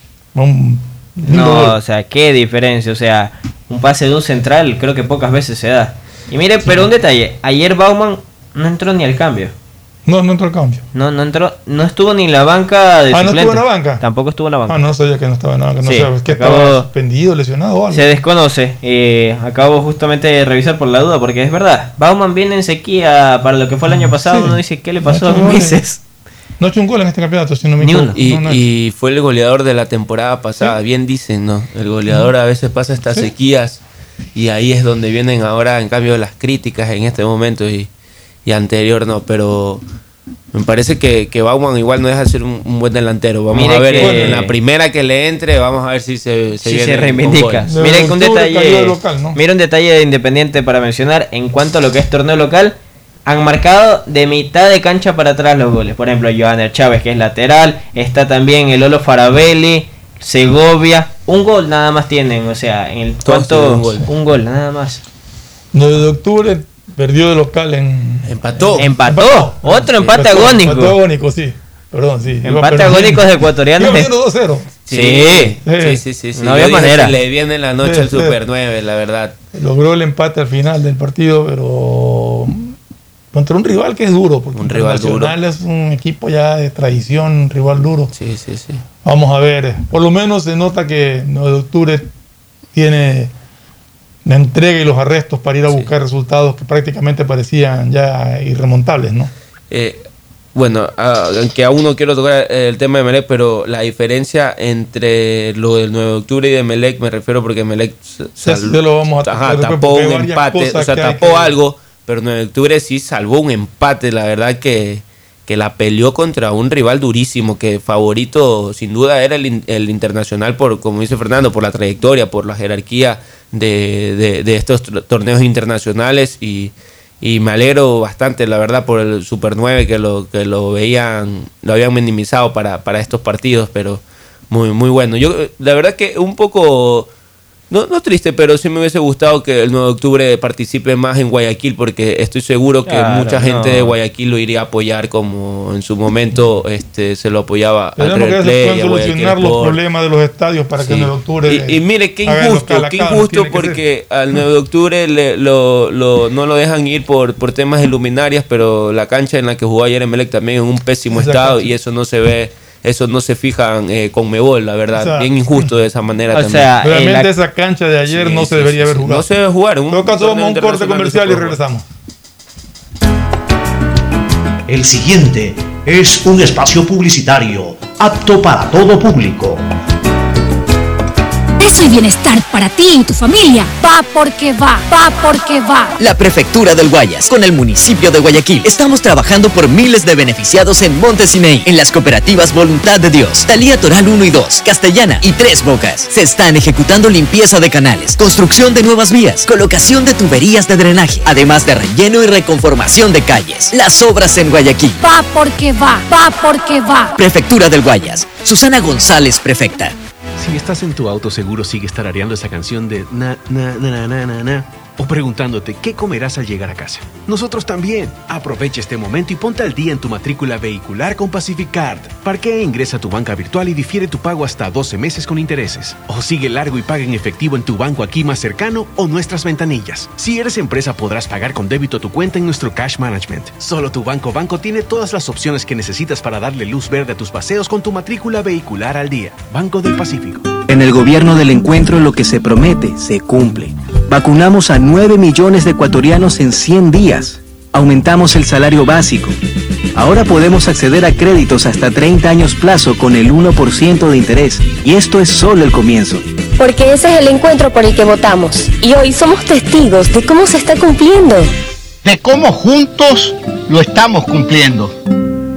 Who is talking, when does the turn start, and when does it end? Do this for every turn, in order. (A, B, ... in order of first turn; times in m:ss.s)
0:00.3-0:01.8 A
0:01.3-0:09.5 B
0:10.0-0:10.8 A
0:10.9-0:14.8 B
0:13.1-0:14.0 A
0:14.7-0:18.0 A
0:15.8-0:16.9 B
0:17.9-0:26.0 B
0:23.8-0:25.8 A
0:26.6-0:28.6 A
0:28.1-0:33.8 C
0:34.3-0:37.9 C
0:38.4-0:39.8 C
0:40.5-0:47.7 C
0:43.5-0:44.5 B
0:44.0-0:44.4 A
0:46.6-1:05.0 B
0:47.7-0:49.4 A
1:03.2-1:04.1 C
1:05.7-1:14.7 A
1:08.3-1:08.9 C
1:08.8-1:11.0 B
1:12.4-1:14.1 B
1:14.8-1:19.3 C
1:14.9-1:15.6 B
1:15.6-1:16.0 A
1:16.4-1:17.1 B
1:17.8-1:18.4 A
1:19.5-1:22.6 A
1:23.3-1:28.1 A
1:24.6-1:25.3 C
1:28.1-1:28.8 C
1:29.0-1:32.1 A
1:32.7-1:33.3 A
1:34.2-1:39.3 A
1:39.7-1:40.0 C
1:40.5-2:17.1 C
1:48.4-1:51.5 A
2:17.7-2:29.8 C
2:22.9-2:23.9 B
2:28.0-2:33.8 A
2:30.8-2:46.7 C
2:41.1-2:41.7 A
2:45.0-2:45.7 A
2:46.3-2:47.3 B
2:46.8-2:49.3 A
2:48.1-2:51.6 C
2:49.9-2:51.8 A
2:54.7-2:59.6 D
3:01.6-3:06.0 E
3:06.0-3:25.0 F
3:25.0-3:27.2 E
3:27.2-3:29.9 F
3:30.4-4:00.5 G
4:00.7-4:09.4 H
4:09.9-4:16.2 H
4:16.6-4:21.5 I
4:22.0-4:24.9 D